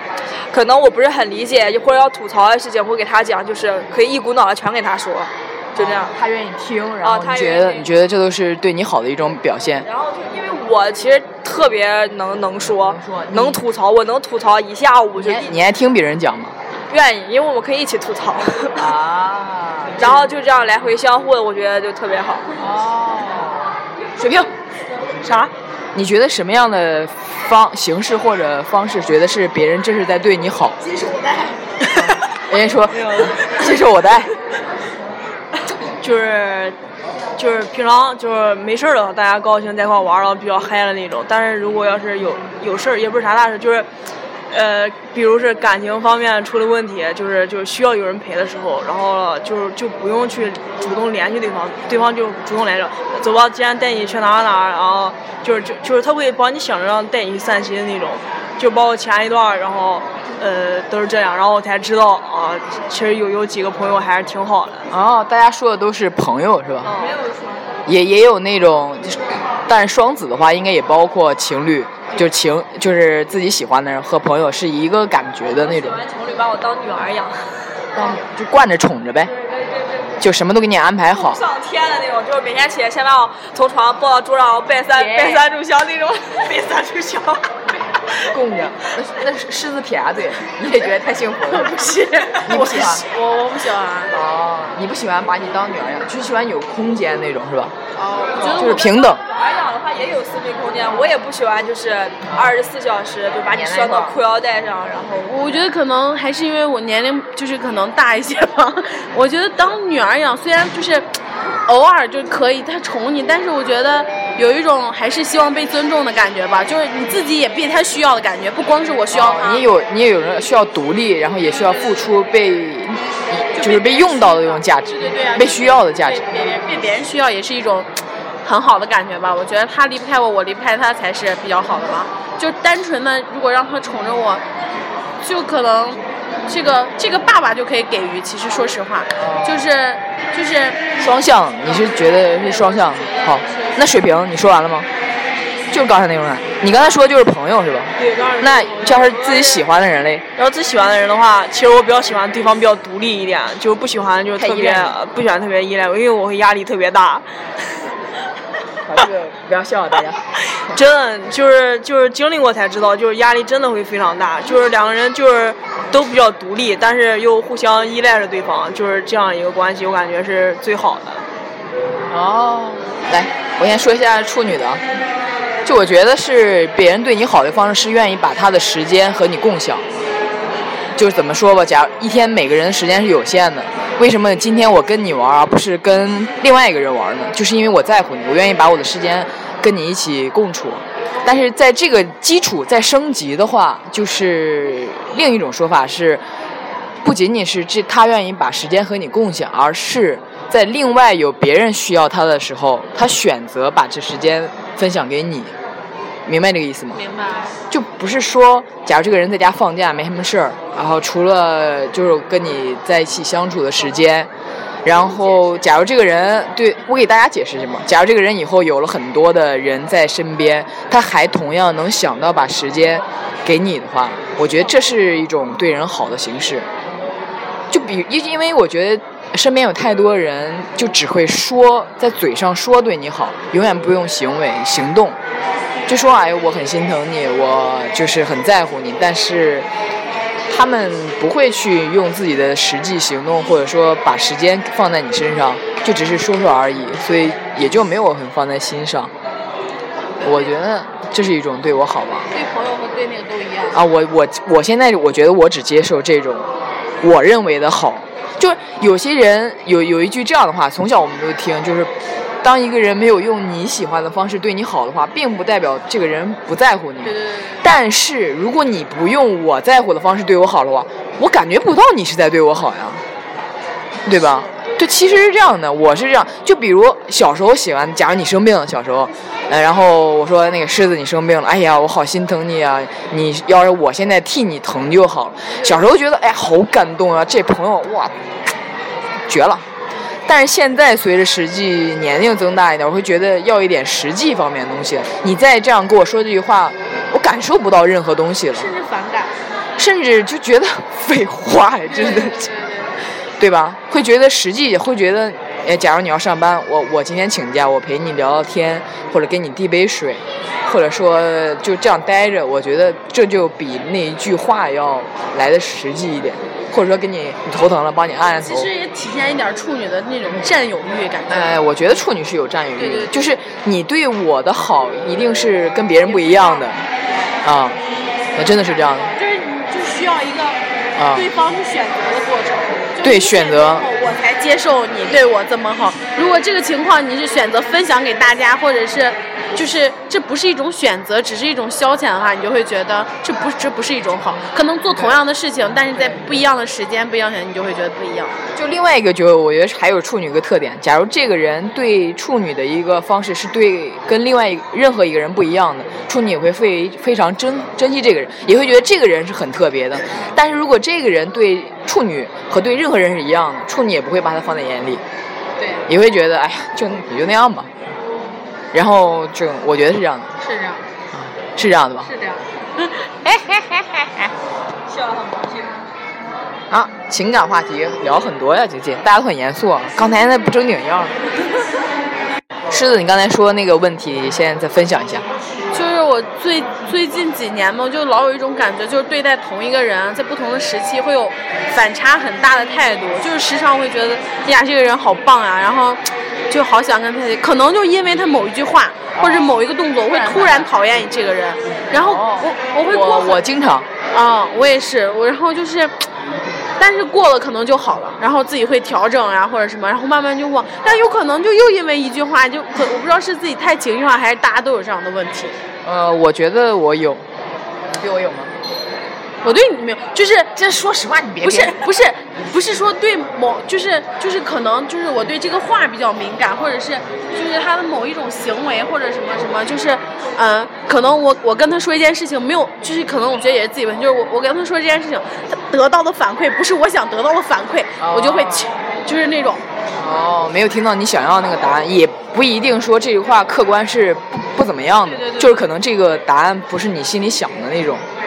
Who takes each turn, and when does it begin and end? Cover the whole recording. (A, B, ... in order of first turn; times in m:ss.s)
0:00.5-0:06.1 A
0:05.8-0:09.9 B
0:07.0-0:07.9 A
0:09.9-0:15.6 A
0:12.6-0:13.6 B
0:15.2-0:16.6 B
0:16.9-0:18.9 A
0:18.8-0:20.2 B
0:20.0-0:22.5 A
0:22.6-0:24.5 B
0:25.2-0:25.5 C
0:25.9-0:30.8 B
0:31.0-0:31.5 D
0:31.8-0:34.3 B
0:32.9-0:33.7 C
0:36.0-0:36.8 C
0:37.4-0:43.9 C
0:44.5-1:04.9 C
1:04.9-1:06.9 B
1:06.8-1:07.7 A
1:06.9-1:07.2 C
1:07.9-1:16.0 B
1:15.5-1:18.2 A
1:18.0-1:19.3 B
1:19.3-1:20.3 A
1:20.2-1:21.4 B
1:21.1-1:26.5 A
1:25.0-1:25.4 B
1:26.5-1:27.4 C
1:28.2-1:31.8 B
1:31.4-1:34.2 D
1:32.3-1:33.0 B
1:34.1-1:37.8 B
1:38.0-1:38.9 D
1:38.4-1:39.2 B
1:38.5-1:45.3 A
1:42.3-1:42.6 B
1:43.5-1:44.2 B
1:45.3-1:51.1 D
1:51.7-1:59.6 D
1:59.1-2:06.2 B
2:03.6-2:07.9 D
2:08.4-2:14.4 D
2:15.2-2:20.8 D
2:19.2-2:19.6 B
2:21.0-2:24.9 B
2:21.7-2:23.8 D
2:25.7-2:30.2 B
2:28.0-2:29.6 C
2:30.4-2:37.2 C
2:34.4-2:35.0 B
2:38.8-2:40.8 B
2:40.6-2:51.2 C
2:52.1-2:54.8 B
2:55.6-2:59.9 B
3:01.0-3:16.2 B
3:17.0-3:25.5 B
3:26.3-3:27.0 B
3:26.9-3:27.6 D
3:27.7-3:34.3 B
3:34.8-3:46.7 B
3:47.7-3:55.2 B
3:55.9-3:59.7 B
4:00.5-4:09.1 B
4:10.2-4:12.3 B
4:12.3-4:13.8 D
4:13.7-4:16.5 B
4:17.0-4:33.0 B
4:27.0-4:27.8 D
4:34.1-4:48.2 B
4:34.2-4:34.7 D
4:49.3-4:49.7 B
4:50.3-4:58.7 B
4:58.5-4:59.3 D
4:59.8-5:02.5 B
5:01.9-5:03.0 D
5:03.4-5:18.7 B
5:18.3-5:21.6 D
5:21.3-5:26.8 B
5:22.8-5:23.2 D
5:26.0-5:26.8 D
5:27.4-5:27.8 B
5:28.4-5:29.1 B
5:28.4-5:30.6 D
5:31.0-5:31.3 B
5:31.1-5:48.4 D
5:33.0-5:33.9 B
5:44.4-5:45.2 B
5:48.6-6:05.0 B
6:05.6-6:05.9 D
6:05.9-6:07.7 B
6:08.7-6:10.3 B
6:10.4-6:10.8 D
6:11.1-6:12.1 B
6:12.0-6:12.4 D
6:13.2-6:14.3 B
6:14.9-6:15.8 A
6:16.7-6:21.2 B
6:22.7-6:25.3 B
6:25.7-6:43.4 D
6:39.2-6:40.7 B
6:41.9-6:43.9 B
6:44.1-6:45.9 D
6:46.8-6:55.6 D
6:55.8-6:57.2 B
6:57.9-6:58.5 B
6:59.4-7:00.5 D
7:00.6-7:01.8 B
7:01.4-7:19.6 D
7:18.0-7:18.7 B
7:20.0-7:28.0 B
7:25.1-7:25.7 D